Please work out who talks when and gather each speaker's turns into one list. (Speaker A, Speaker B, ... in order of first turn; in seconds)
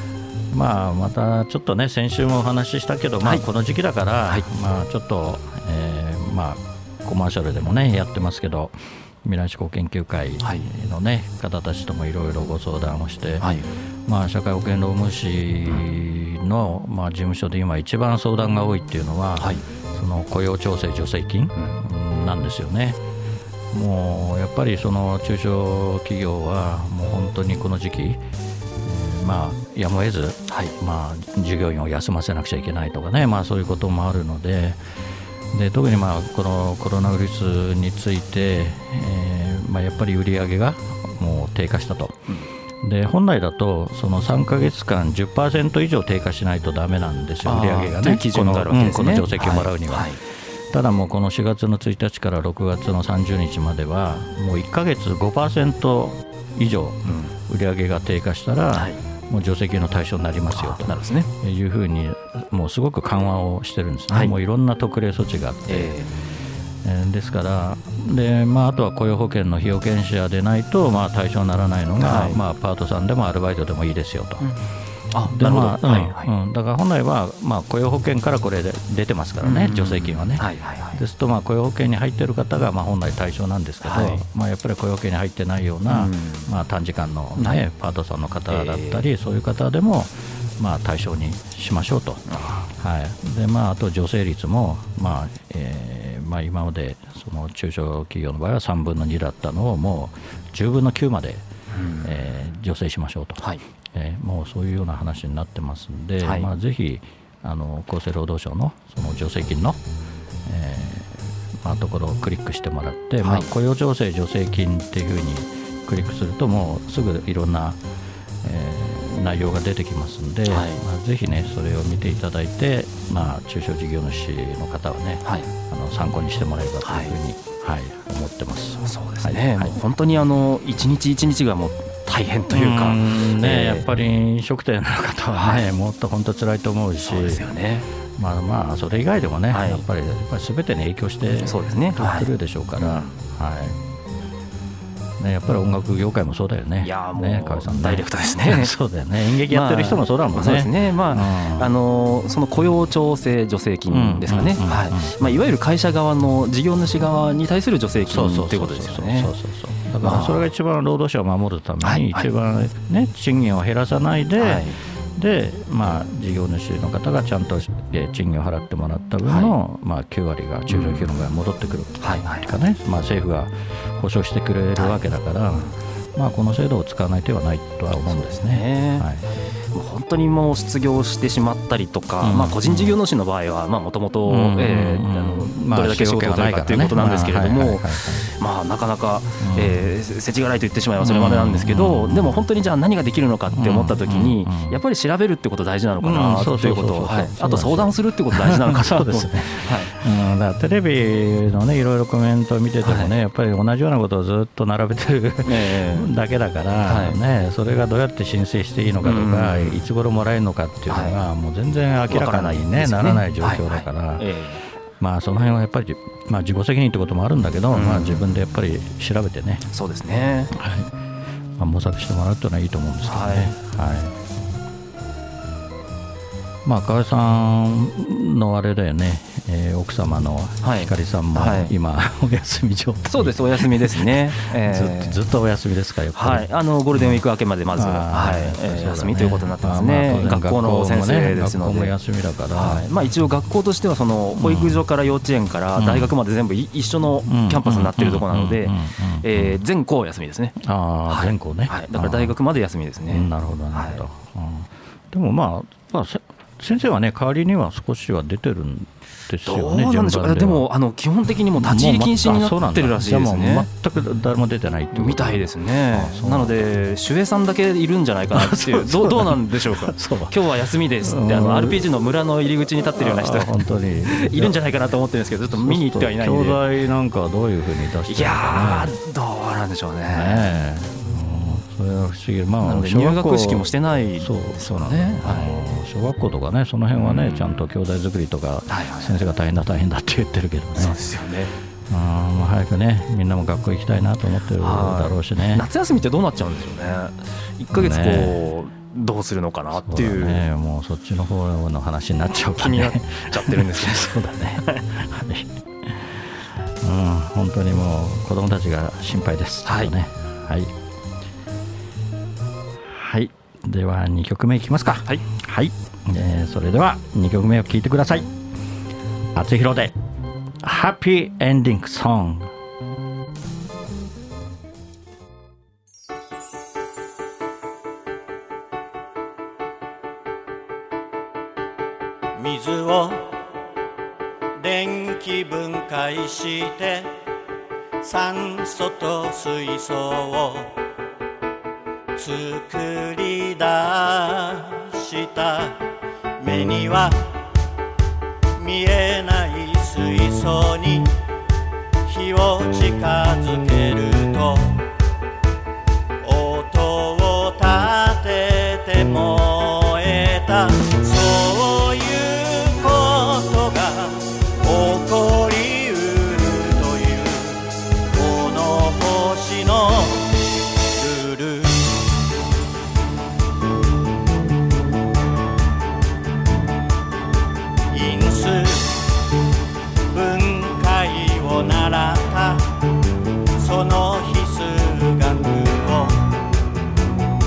Speaker A: 0.5-23.0, 23.7-28.2, 28.8-34.8, 35.5-42.2, 42.8-50.2, 50.7-65.9, 66.8-74.5, 75.2-101.4, 102.0-109.8, 110.5-117.8, 118.4-129.8, 132.5-137.5, 138.2-143.8, 145.2-151.7, 153.9-155.3, 158.1-179.3, 182.2-183.0, 184.2-188.3, 189.4-189.9, 191.0-192.4, 193.5-194.8, 196.0-214.3, 215.0-219.6, 220.5-220.9, 221.6-224.3, 226.6-242.9, 244.3-244.8, 245.8-246.1, 247.3-249.6, 250.6-252.4, 253.1-260.6, 261.6-266.6, 268.3-271.8, 273.0-274.6, 275.5-278.9, 280.1-291.0, 291.9-295.7, 297.7-298.4, 299.8-306.1, 306.8-310.7, 312.9-318.3, 319.3-319.9, 320.6-322.5
Speaker B: 13.4-13.7, 19.4-19.6, 30.5-30.7, 47.4-50.2, 57.0-57.3, 58.7-59.0, 60.5-61.3, 64.1-64.3, 65.7-66.1, 72.0-72.4, 75.1-76.3, 79.4-81.0, 83.8-84.2, 85.9-86.5, 87.4-87.6, 88.5-89.1, 92.3-92.6, 101.7-102.1, 106.2-106.5, 113.2-113.5, 120.5-120.8, 126.8-127.1, 128.8-133.9, 135.3-135.7, 137.0-137.9, 139.5-139.8, 141.4-143.2, 146.8-148.7, 149.3-159.3, 160.0-160.5, 161.8-162.3, 164.4-164.8, 169.2-169.5, 170.7-171.1, 172.0-172.6, 174.8-175.0, 178.0-179.1, 179.7-199.9, 202.8-203.1, 205.4-206.1, 206.9-207.2, 209.0-209.8, 210.9-211.2, 212.1-214.6, 217.7-218.3, 219.7-220.5, 223.0-223.5, 230.6-231.7, 233.1-235.2, 236.1-241.9, 242.5-250.6, 251.1-254.0, 259.4-263.7, 264.9-276.6, 278.1-280.5, 282.6-285.5, 286.9-287.5, 288.7-289.2, 290.7-291.5, 294.6-300.4, 302.6-304.8, 309.6-309.9
Speaker C: 332.4-333.4, 334.6-337.1, 338.0-340.8, 342.1-345.8, 346.4-347.3, 348.5-351.1, 352.1-354.9, 356.2-370.4, 370.9-372.0, 377.9-379.0, 380.1-382.7, 383.6-386.3